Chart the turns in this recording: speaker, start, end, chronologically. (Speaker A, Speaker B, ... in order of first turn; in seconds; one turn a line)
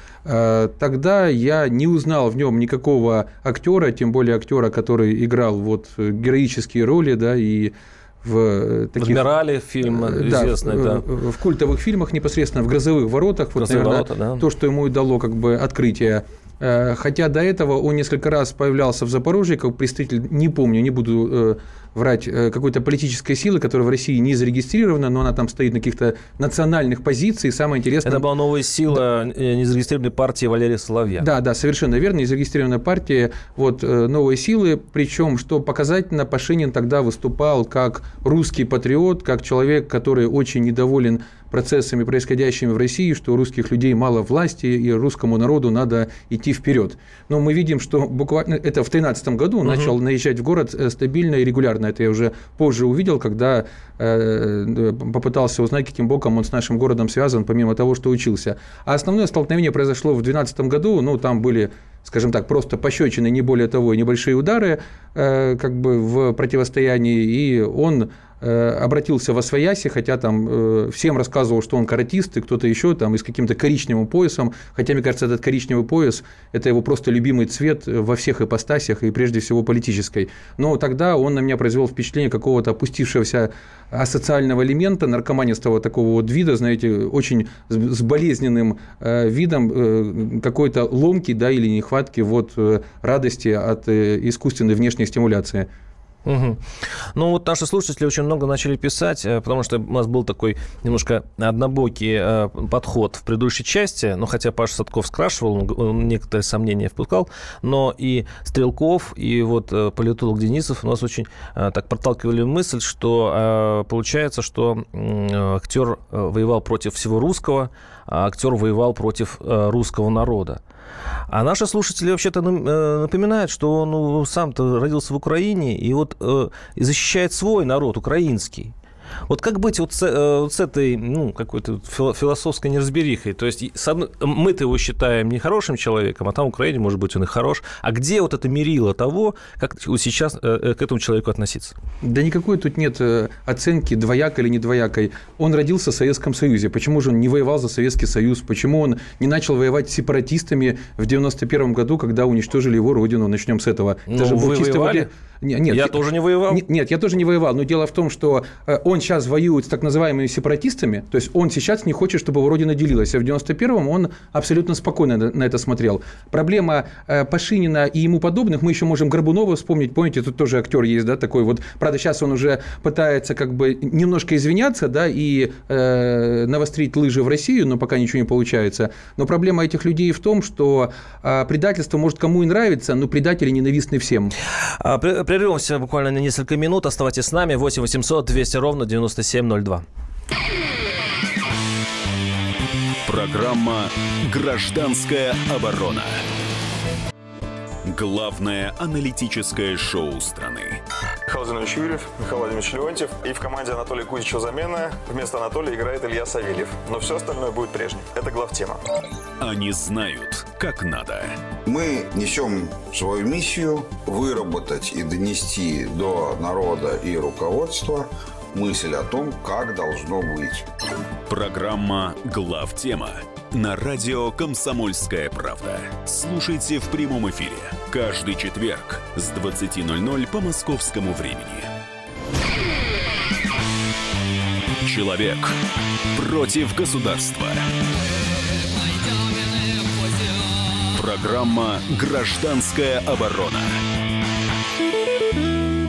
Speaker A: 0.2-9.2
Speaker B: 9.0-11.0
Speaker A: 9.8-28.3
Speaker B: 13.6-14.4
Speaker B: 28.1-31.2
Speaker A: 31.2-95.7
Speaker B: 49.7-49.9
Speaker B: 96.3-96.6
Speaker B: 97.2-120.6
Speaker B: 121.3-128.7
Speaker B: 129.3-141.7
Speaker A: 142.0-156.0
Speaker B: 154.1-155.1
Speaker B: 155.7-156.6
Speaker A: 156.5-184.3
Speaker B: 184.8-189.8
Speaker C: 193.1-196.2
Speaker C: 197.9-200.8
Speaker D: 201.3-208.8
Speaker C: 209.4-211.3
Speaker E: 211.7-220.7
Speaker C: 221.3-231.7
Speaker C: 234.8-235.6
Speaker C: 236.1-237.7
Speaker C: 240.9-243.8